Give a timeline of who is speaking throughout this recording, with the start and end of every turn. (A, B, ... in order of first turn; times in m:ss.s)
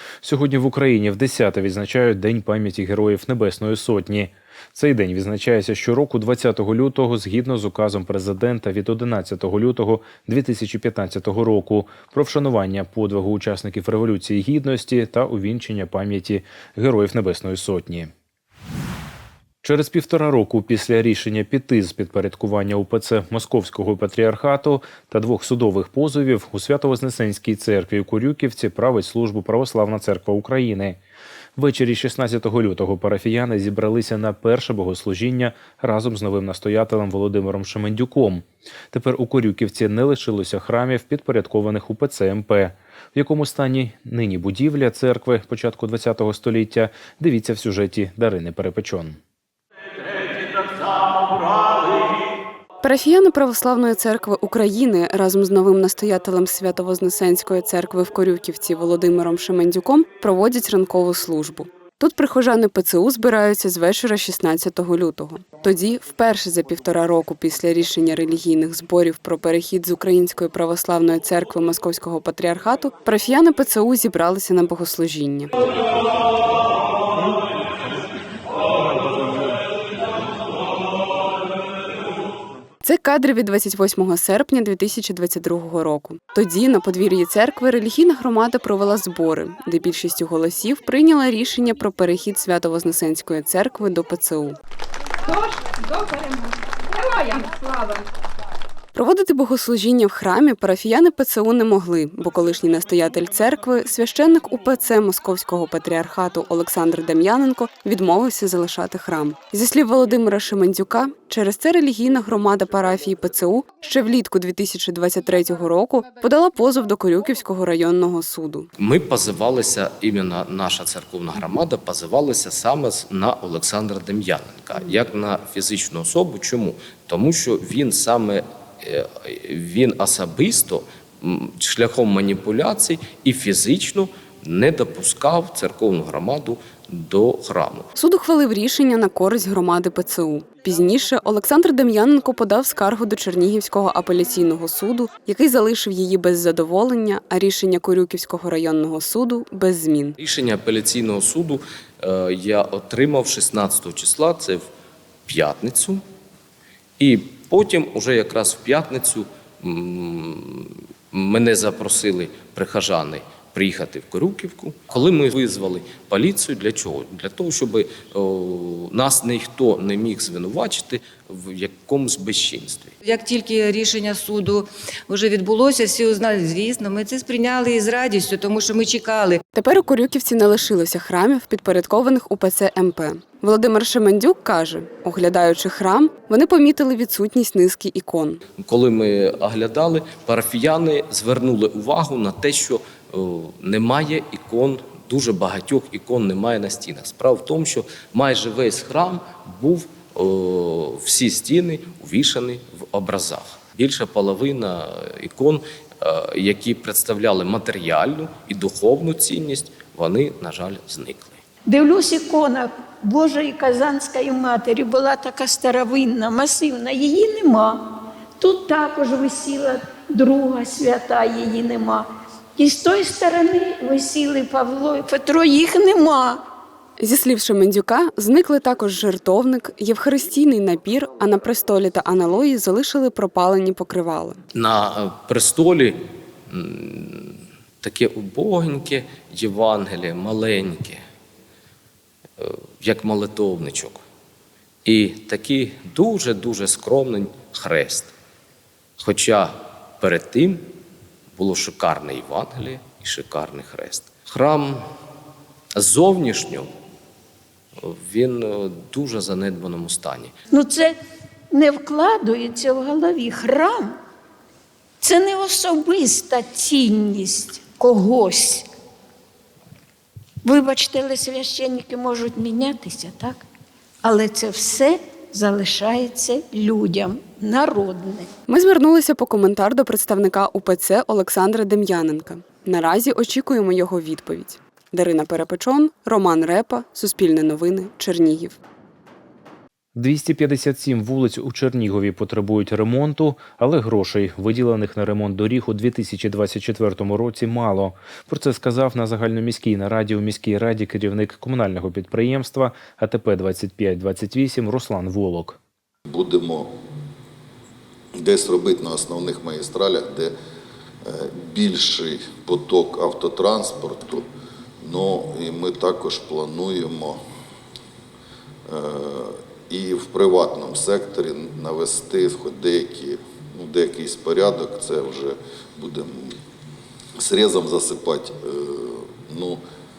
0:00.2-0:18.1 A
0:19.6-0:31.0 A
0:31.6-0:49.2 A
0:52.8-1:15.5 B
1:22.8-1:34.6 B
1:38.9-1:58.7 B
1:58.8-2:17.9 C
2:18.0-2:30.2 B
2:30.2-2:34.7 C
2:35.3-2:36.0 C
2:37.0-2:52.9 C
2:53.0-2:59.4 D
2:59.5-3:08.4 B
3:08.6-3:31.4 C
3:31.7-3:46.4 E
3:47.0-3:54.4 B
3:54.5-4:01.0 C
4:02.4-4:04.0 C
4:04.8-4:08.1 C
4:09.0-4:10.6 C
4:11.4-4:14.8 C
4:15.8-4:16.7 C
4:17.8-4:20.3 C
4:20.5-4:21.0 E
4:21.5-4:24.0 E
4:25.0-4:28.7 E
4:30.4-4:33.4 E
4:34.0-4:38.3 E
4:38.5-4:48.6 B
4:50.0-5:05.6 A
5:06.1-5:06.7 F
5:08.2-5:10.3 F
5:11.0-5:14.2 F
5:14.8-5:17.2 F
5:18.7-5:26.4 F
5:27.2-5:29.6 F